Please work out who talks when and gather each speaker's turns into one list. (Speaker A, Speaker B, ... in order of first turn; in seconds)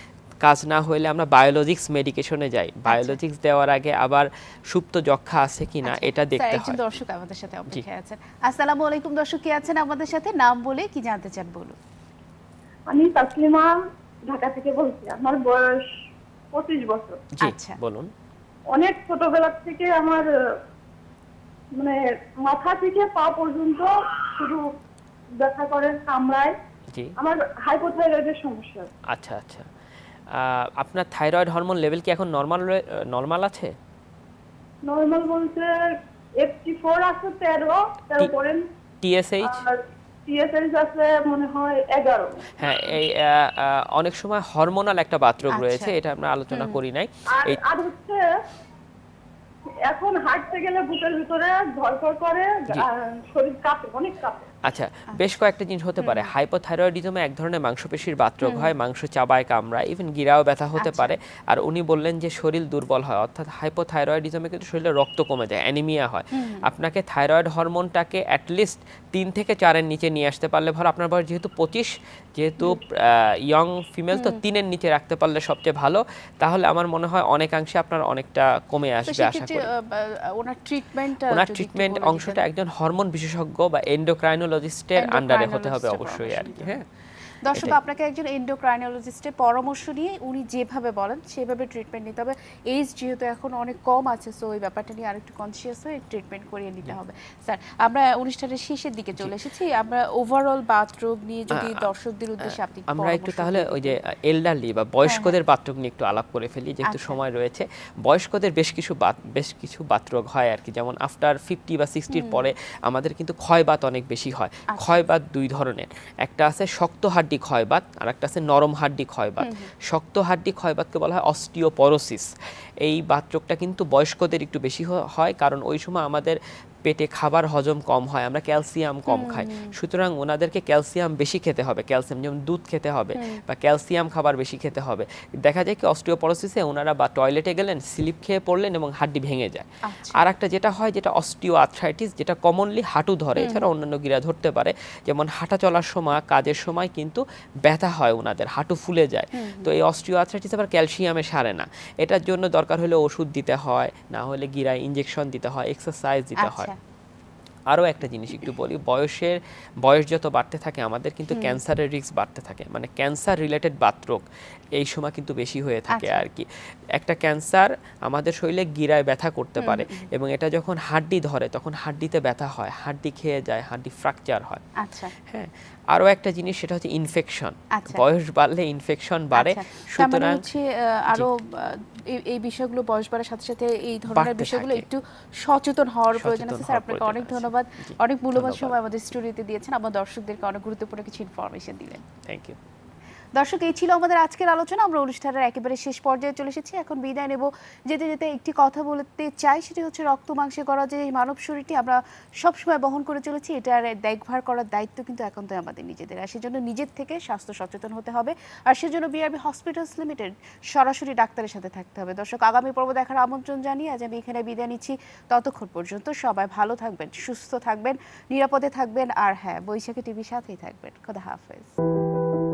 Speaker A: 0.4-6.8, 17.4-18.1, 29.1-29.7, 30.3-33.7, 39.0-39.6, 42.6-47.6, 54.6-79.7, 81.3-86.8, 87.5-87.8, 101.5-101.9, 102.4-122.3, 122.8-156.7, 157.7-164.2, 164.8-174.6, 175.2-180.4, 184.1-184.9, 186.1-188.8, 192.2-192.6
Speaker B: 2.9-3.2, 5.8-11.8, 17.4-17.8, 45.5-45.9, 46.5-46.8, 56.0-56.3, 58.4-58.7, 60.8-61.1, 66.4-66.6, 74.1-74.4, 79.1-82.4, 85.0-86.8, 87.4-104.0, 105.0-105.3, 106.9-107.2, 112.1-112.5, 114.7-115.0, 119.4-119.7, 129.1-129.7, 133.1-133.4, 139.9-140.2, 143.4-143.7, 149.3-149.7, 156.4-156.7, 161.3-161.6, 165.9-166.2, 169.6-170.1, 174.8-175.1, 177.7-178.0, 179.3-192.0, 193.3-221.7
Speaker C: 12.9-13.8, 14.3-15.9, 16.5-17.2, 18.7-20.2, 21.8-24.7, 25.4-26.5, 27.2-28.9, 34.8-35.7, 36.4-38.6, 39.5-42.6, 47.3-48.2, 49.9-54.5